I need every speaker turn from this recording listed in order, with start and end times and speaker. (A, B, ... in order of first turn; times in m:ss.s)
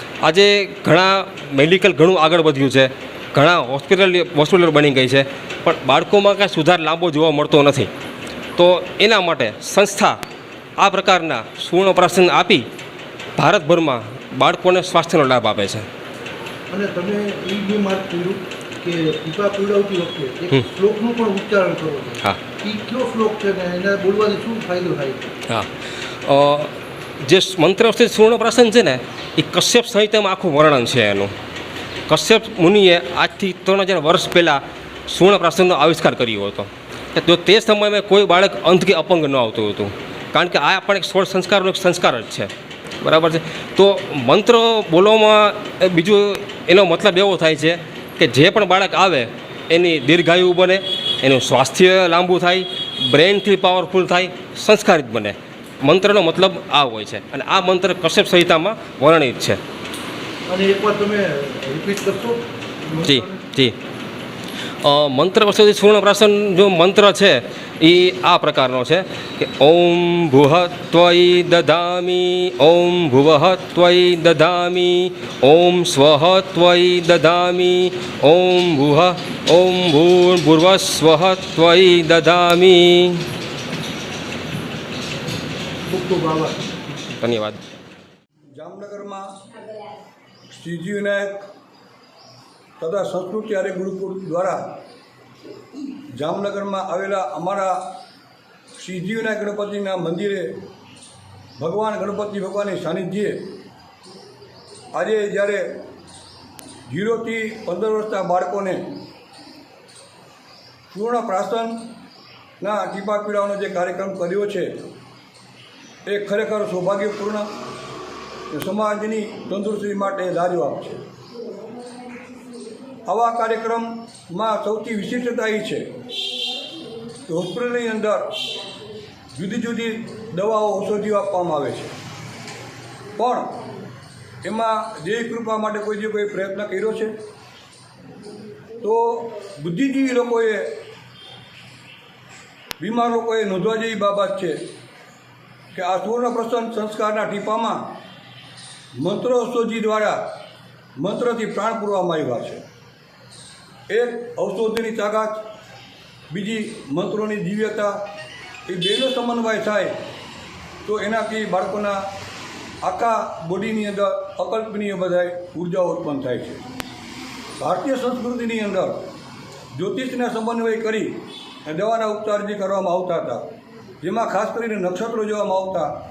0:00.2-0:07.9 A
0:08.6-0:10.2 A
0:10.8-0:12.6 A
0:13.4-0:15.9 A
0:16.7-0:25.3 B
0:26.3-0:26.7 A
0:27.3-0:31.3 A
0:32.1-0:42.5 A
0:43.0-0:59.6 A
1:00.5-1:03.4 B
1:03.0-1:03.8 A
1:04.8-1:23.2 A
1:25.9-1:27.0 B
1:27.2-1:27.6 A
1:28.5-1:29.3 C
1:30.5-1:31.4 C
1:32.8-1:34.6 C
1:36.2-1:37.8 C
1:38.8-1:40.5 C
1:41.6-1:43.4 C
1:44.9-1:45.7 C
1:46.9-1:48.8 C
1:50.9-1:51.8 C
1:52.6-1:54.7 C
1:56.1-1:57.5 C
1:58.5-2:01.0 C
2:03.1-2:05.8 C
2:07.3-2:08.3 C
2:09.4-2:11.9 C
2:13.2-2:13.5 C
2:14.4-2:17.1 C
2:18.8-2:20.7 C
2:22.8-2:24.6 C
2:25.8-2:27.8 C
2:29.0-2:30.2 C
2:31.0-2:32.6 C
2:33.9-2:35.4 C
2:36.3-2:38.0 C
2:38.7-2:39.9 C
2:40.8-2:42.0 C
2:42.8-2:46.6 C
2:47.6-2:49.0 C
2:49.7-2:53.5 C
2:54.0-2:55.9 C